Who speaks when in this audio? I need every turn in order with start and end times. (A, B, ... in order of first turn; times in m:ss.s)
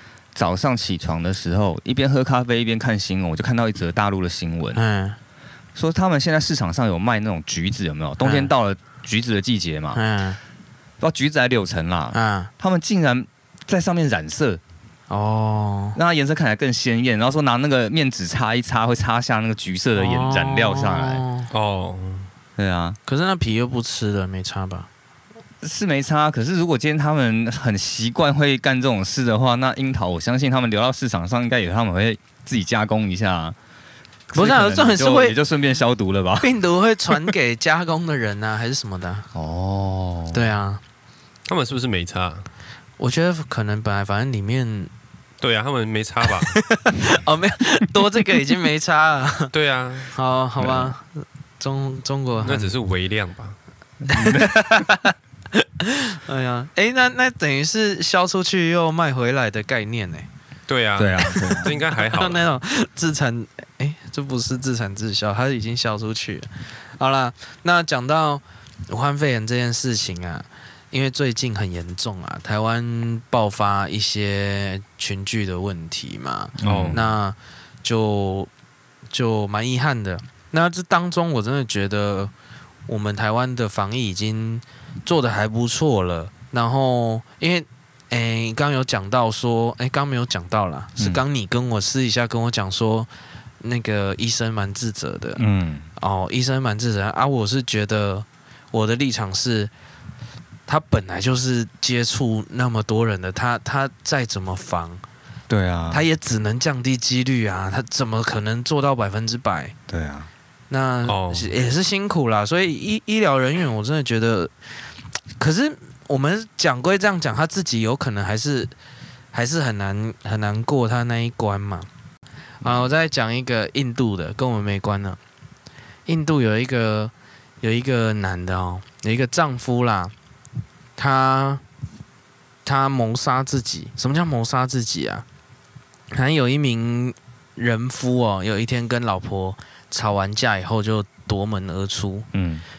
0:00.3-0:04.8 A
0:04.7-0:05.2 B
0:05.7-0:10.0 A
0:08.2-0:08.5 B
0:09.9-0:10.4 B
0:11.0-0:14.6 A
0:12.1-0:12.5 B
0:15.1-0:16.0 B
0:16.0-0:21.2 A
0:20.0-0:21.5 B
0:21.5-0:22.3 C
0:22.6-0:23.0 A
0:23.1-0:24.9 B
0:25.6-0:33.6 A
0:34.3-0:36.5 A
0:34.3-0:35.4 B
0:36.4-0:39.2 B
0:39.3-0:40.4 A
0:40.3-0:40.8 B
0:41.5-0:42.5 C
0:43.0-0:44.9 B
0:45.4-0:46.5 C
0:46.3-0:49.5 B
0:49.5-0:50.2 C
0:50.1-0:52.7 B
0:50.6-0:50.9 A
0:52.4-0:53.6 C
0:54.0-0:54.9 A
0:54.1-1:00.3 B
1:00.7-1:02.4 C
1:01.0-1:01.7 A
1:01.2-1:18.5 B
1:16.6-1:17.0 A
1:16.6-1:17.0 C
1:19.1-1:22.3 B
1:22.9-1:33.1 B
1:31.0-1:31.2 A
1:33.6-1:35.4 B
1:35.4-1:35.8 A
1:36.0-1:39.7 B
1:40.7-1:45.0 B
1:45.5-1:46.0 A
1:45.9-1:49.7 B
1:49.9-1:50.3 A
1:50.7-1:54.5 B
1:51.0-1:51.5 C
1:55.4-1:58.7 B
1:59.3-2:01.9 B
2:02.6-2:05.2 B
2:06.0-2:10.1 B
2:11.0-2:11.6 B
2:12.6-2:15.2 B
2:16.1-2:22.3 B
2:22.3-2:22.6 A